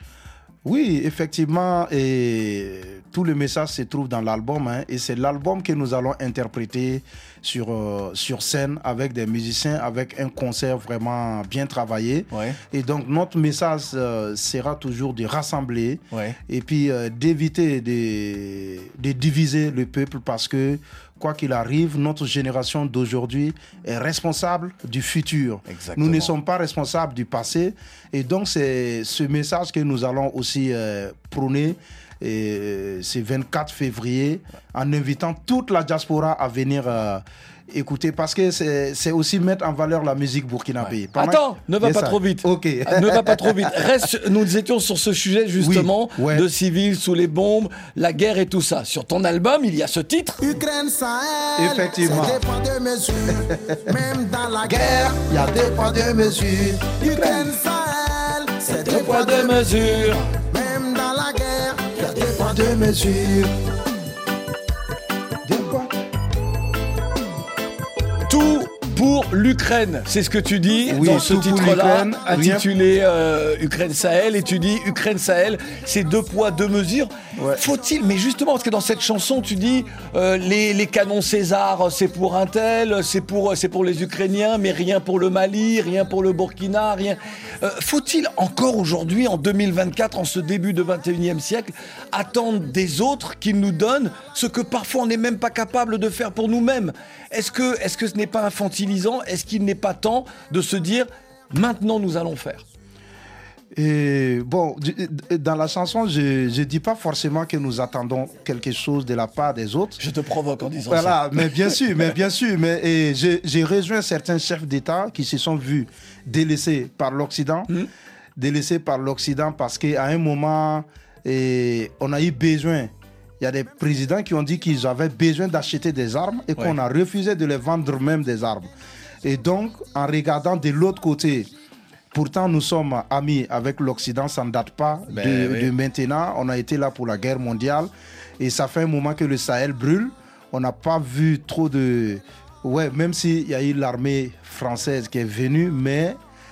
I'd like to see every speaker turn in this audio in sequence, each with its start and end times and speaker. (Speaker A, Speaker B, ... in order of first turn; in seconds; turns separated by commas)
Speaker A: 0.6-43.7, Speaker B: 12.3-12.6, Speaker B: 25.7-26.3, Speaker B: 40.8-50.4, Speaker A: 45.6-46.5, Speaker C: 50.4-59.9, Speaker A: 51.6-52.4, Speaker A: 54.6-57.5, Speaker B: 58.8-60.2, Speaker C: 60.5-62.9, Speaker A: 62.3-63.5, Speaker A: 65.4-65.9, Speaker B: 68.3-102.6, Speaker A: 70.9-72.7, Speaker A: 77.3-77.6, Speaker A: 103.7-110.0, Speaker B: 110.0-111.7, Speaker A: 110.9-117.7, Speaker A: 118.4-128.7, Speaker A: 129.2-131.5, Speaker A: 132.1-146.2, Speaker B: 135.1-135.7